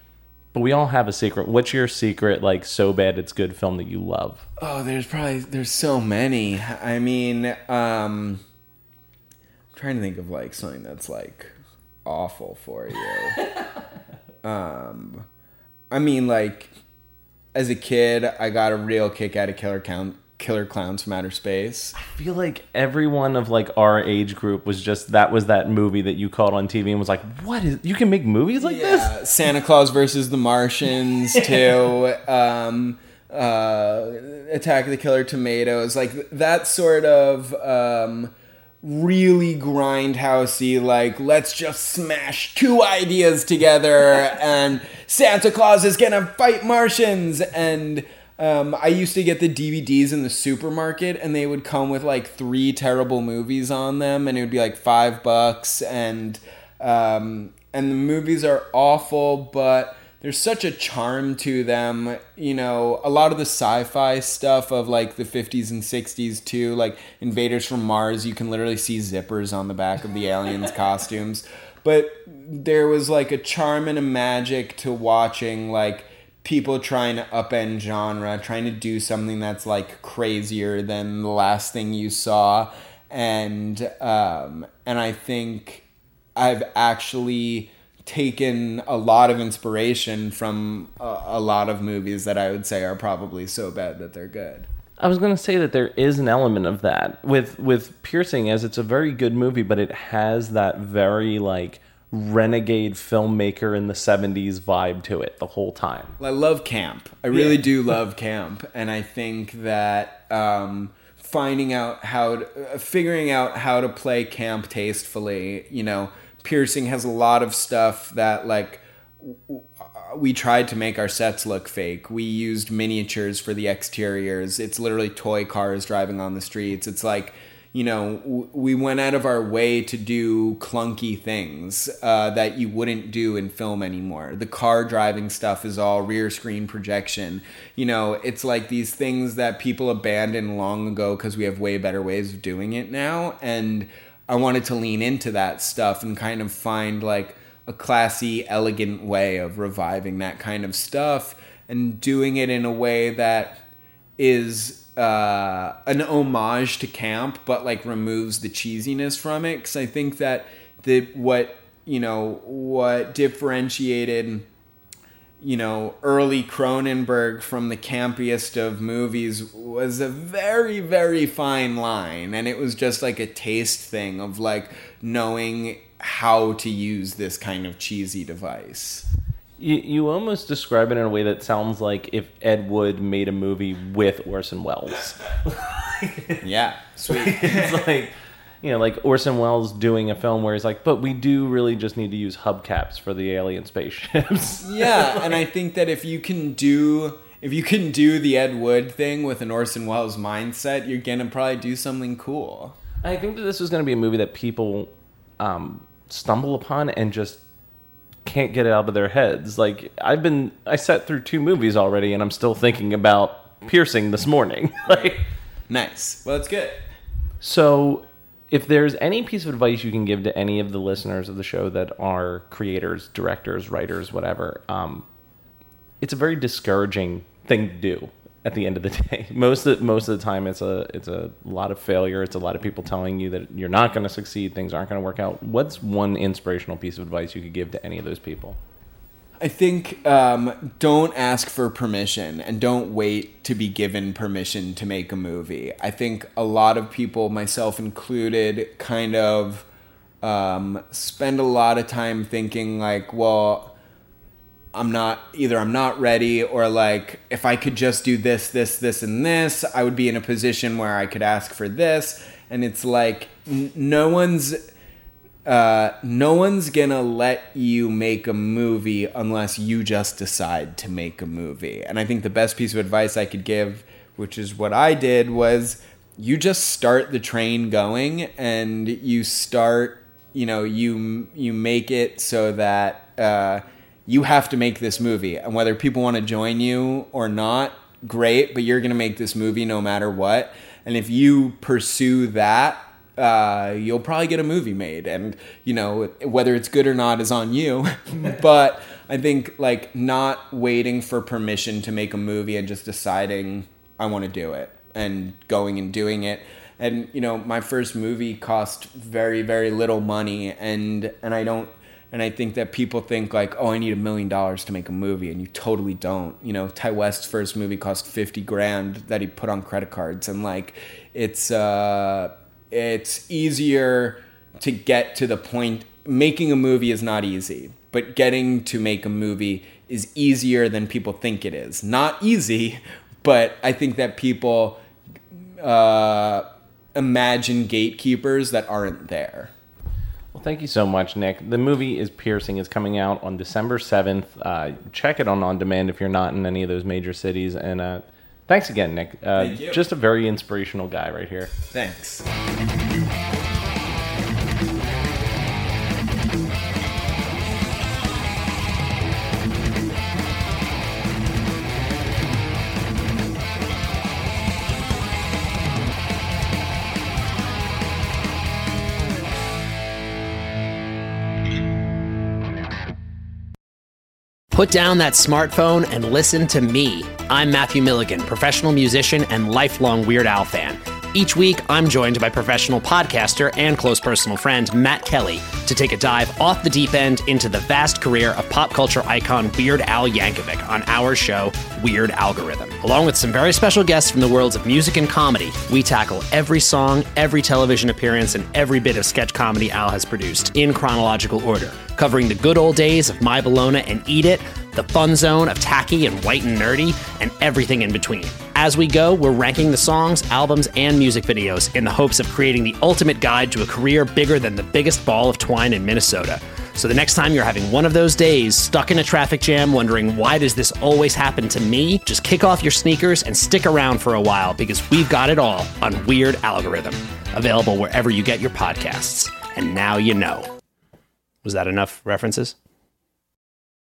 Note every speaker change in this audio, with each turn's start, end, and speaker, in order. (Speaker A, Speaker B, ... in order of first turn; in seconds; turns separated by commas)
Speaker A: 0.5-4.4, Speaker B: 4.6-8.4, Speaker B: 9.7-13.4, Speaker B: 14.4-15.2, Speaker B: 15.9-16.7, Speaker B: 17.5-21.9, Speaker A: 22.0-29.1, Speaker B: 28.6-94.7, Speaker A: 31.3-31.7, Speaker A: 95.0-106.1, Speaker B: 106.2-153.6, Speaker A: 107.3-107.6, Speaker B: 154.2-164.5, Speaker B: 165.4-179.1, Speaker A: 179.6-186.4, Speaker B: 186.4-187.8, Speaker A: 187.1-195.3, Speaker B: 194.6-202.8, Speaker A: 203.0-207.4, Speaker A: 208.2-215.2, Speaker B: 215.7-216.8, Speaker A: 217.4-225.1, Speaker A: 226.0-238.6, Speaker B: 239.4-249.7, Speaker B: 250.2-253.8, Speaker B: 254.7-264.6, Speaker B: 265.4-334.8, Speaker B: 335.6-339.5, Speaker A: 340.3-351.5, Speaker B: 349.3-349.8, Speaker B: 351.7-352.2, Speaker C: 374.5-430.5, Speaker C: 431.4-432.6